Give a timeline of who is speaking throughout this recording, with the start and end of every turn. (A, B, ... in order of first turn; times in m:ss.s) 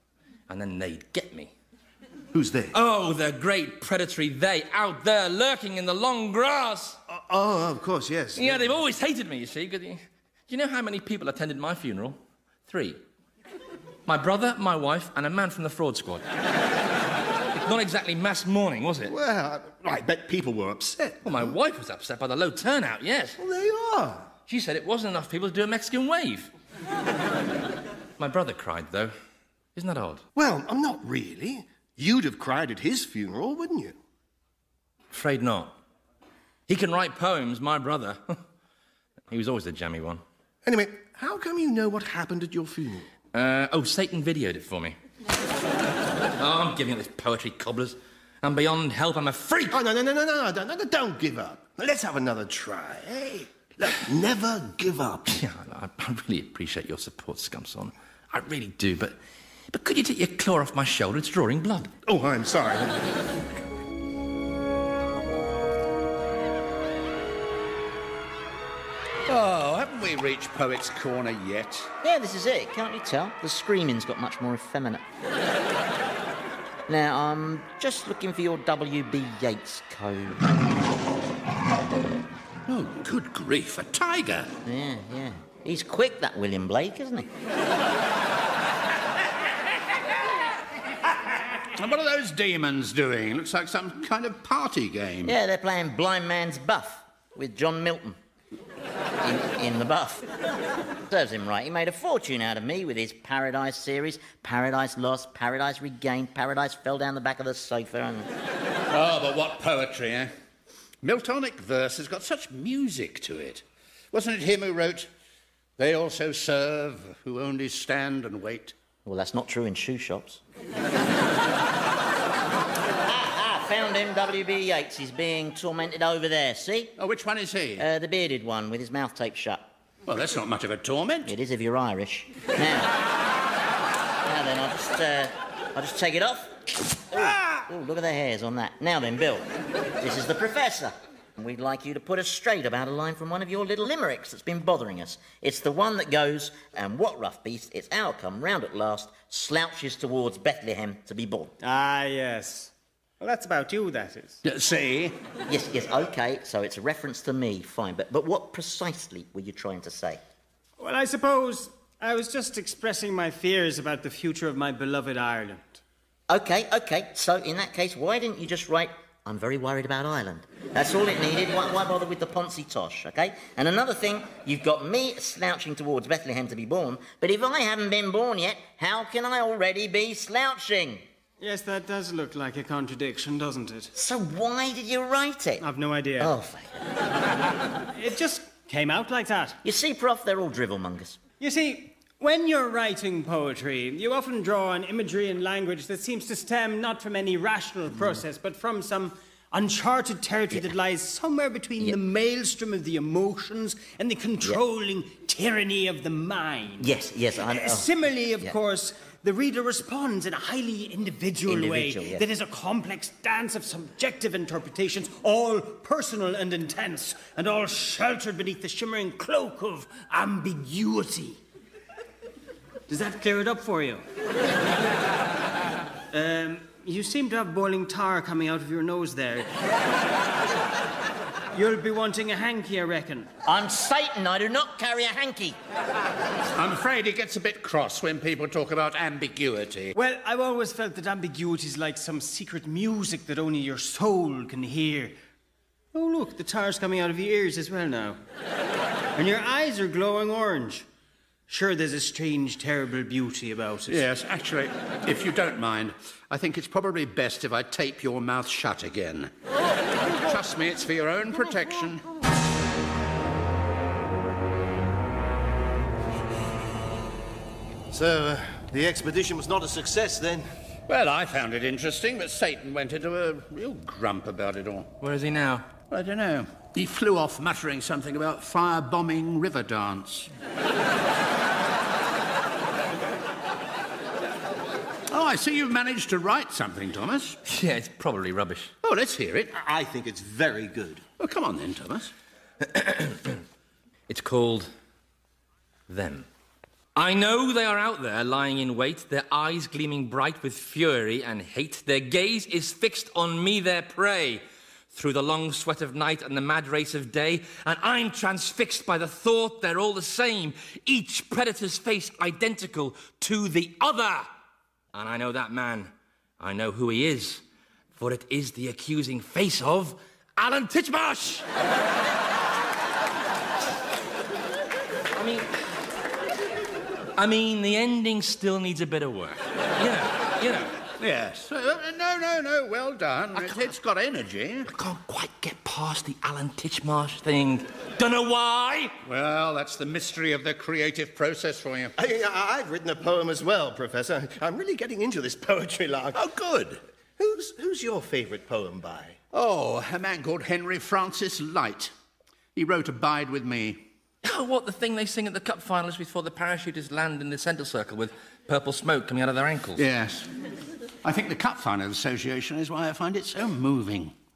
0:00.5-0:01.5 A
0:02.3-0:02.8 B
0:02.7-0:07.0 A
0:07.1-0:08.8 B
0:08.4-0:13.0 A
0:14.0-0:16.2 A
0:17.5-0:19.1 A
0:19.1-0:21.5 B
0:21.2-0:23.4 A
0:23.4-0:24.3 B
0:24.5-0:26.5 A
0:28.2-0:29.1 A
0:29.8-0:30.2 A
0:30.4-0:34.0 B
0:35.1-0:35.8 A
0:36.7-0:38.4 A
0:39.3-0:40.2 A
0:40.6-0:43.1 B
0:43.3-0:45.0 A
0:46.4-0:49.8 A
0:49.7-0:55.4 B
0:55.3-0:59.2 A
0:59.7-1:01.9 A
1:02.0-1:03.1 B
1:09.2-1:11.9 C
1:12.0-1:15.0 D
1:16.9-1:20.5 D
1:22.7-1:24.5 C
1:24.6-1:27.3 D
1:31.7-1:35.4 C
1:35.2-1:38.2 D
1:39.2-1:40.2 D
1:41.1-1:48.3 D
1:48.9-1:50.3 C
1:51.0-1:55.1 C
1:55.8-1:58.7 C
1:59.0-2:00.4 D
2:03.0-2:06.9 D
2:07.0-2:07.8 C
2:07.8-2:09.7 D
2:10.1-2:11.3 C
2:11.2-2:12.9 D
2:14.2-2:31.5 D
2:17.2-2:17.6 C
2:31.6-2:34.4 E
2:34.4-2:35.2 C
2:35.5-2:40.2 D
2:40.8-2:45.8 E
2:46.3-3:01.0 D
3:01.4-3:03.9 E
3:03.9-3:05.6 D
3:05.6-3:06.3 E
3:06.2-3:06.8 D
3:07.9-3:09.6 E
3:09.6-3:11.2 D
3:11.4-3:26.9 E
3:26.8-3:27.9 D
3:27.4-3:41.4 E
3:31.4-3:32.2 D
3:42.9-3:44.0 E
3:46.1-3:49.5 E
3:51.5-3:53.3 E
3:53.4-3:55.6 D
3:56.5-3:59.9 C
3:59.9-4:05.2 E
4:05.9-4:08.2 E
4:09.1-4:10.9 E
4:11.5-4:14.0 E
4:13.9-4:19.3 C
4:20.0-4:22.0 C
4:27.9-4:30.5 B
4:30.9-4:34.9 C
4:35.0-4:35.7 A
4:35.9-4:40.3 C
4:45.1-4:47.4 C
4:47.4-4:48.7 A
4:48.8-4:49.6 C
4:49.5-4:51.0 B
4:51.2-4:52.1 C
4:52.6-4:53.4 A
4:54.1-4:54.7 A
4:55.9-4:56.3 A
4:57.0-5:14.3 A
5:14.9-5:17.4 A
5:17.9-5:21.4 A
5:25.1-5:25.5 A
5:27.2-5:30.8 A
5:30.9-5:34.7 C
5:33.3-5:33.7 A
5:34.7-5:39.0 A
5:39.0-5:41.9 C
5:42.0-5:46.2 B
5:46.1-5:46.8 C
5:47.2-5:49.2 B
5:49.3-5:51.9 C
5:52.5-5:53.8 C
5:54.2-5:59.8 A
5:59.8-6:00.3 C
6:01.0-6:04.1 C